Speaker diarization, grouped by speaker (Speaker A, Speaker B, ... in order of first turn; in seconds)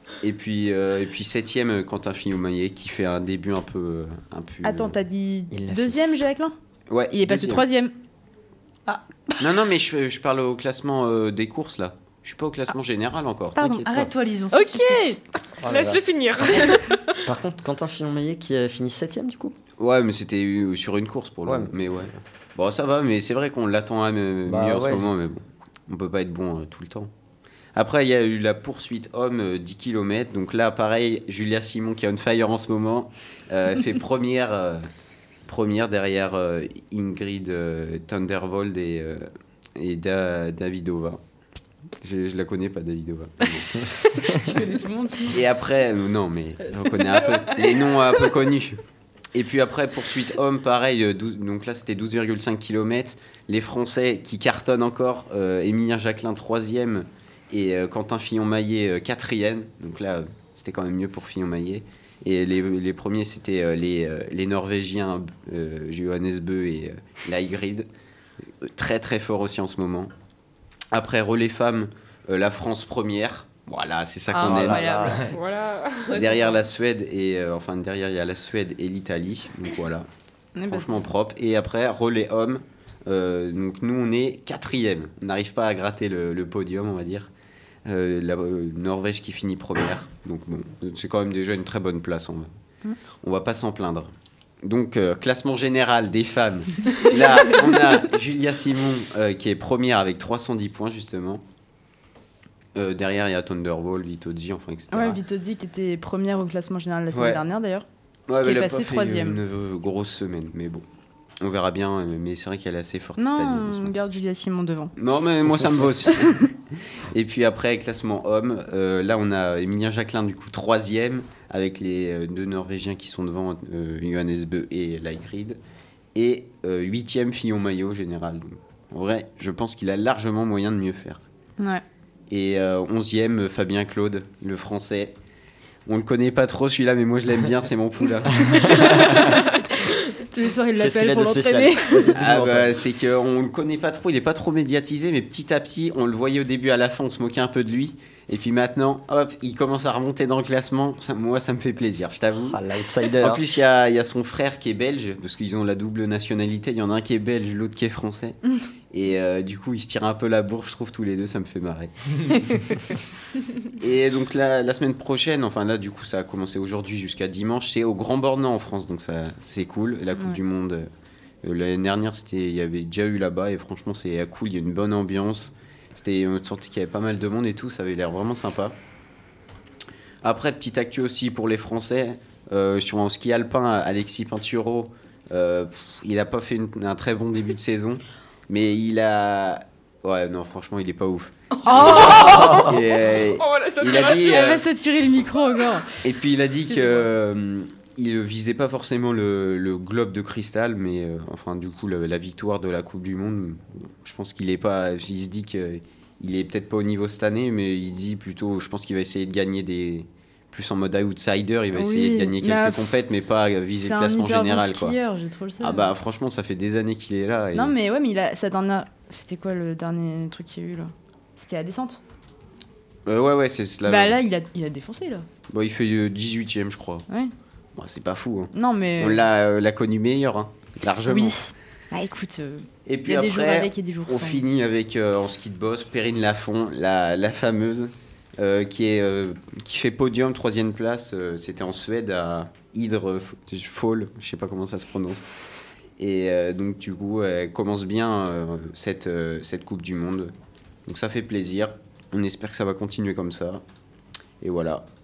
Speaker A: 0.2-5.0, 6.9-7.7, 9.4-14.1, 19.8-27.1, 27.8-34.9, 35.5-41.2, 42.0-44.3, 45.3-48.8, 49.3-67.9, 68.6-70.1, 70.9-75.2, 76.1-80.1, 80.7-87.3, 87.9-92.5, 93.2-94.1, 94.6-101.4, 102.8-105.2, 107.1-107.4, 108.3-110.8, 111.4-113.9, 115.0-116.5, 117.1-125.6, 126.2-131.2, 132.3-135.2, 135.9-139.3, 142.2-152.6, 153.2-162.9, 163.8-170.9, 171.4-178.8, 180.2-194.6, 196.0-215.0, 215.6-217.8, 223.1-224.2, 225.5-227.1, 227.8-231.4, 232.9-245.3, 246.0-250.3, 250.9-253.6, 254.4-254.8
Speaker B: 4.6-6.5, 7.1-7.9, 13.6-13.8, 14.5-15.2, 80.6-81.0, 104.9-107.8, 108.4-109.4, 113.2-114.9, 116.1-116.4, 131.6-131.8, 138.7-139.4, 140.2-142.2, 191.7-192.8, 194.2-195.9, 211.7-213.0, 213.8-215.9, 217.5-222.0, 223.9-225.2, 228.5-229.2, 231.1-234.4
Speaker C: 5.5-6.2, 15.6-16.0, 17.2-19.6, 21.4-21.8, 24.5-25.1, 74.4-75.2, 140.8-142.8, 152.5-153.5
Speaker D: 13.8-15.2, 44.0-45.4, 46.9-48.1, 74.3-75.2, 191.6-192.6, 196.6-197.1
Speaker E: 15.7-17.2, 75.3-76.4, 193.1-194.6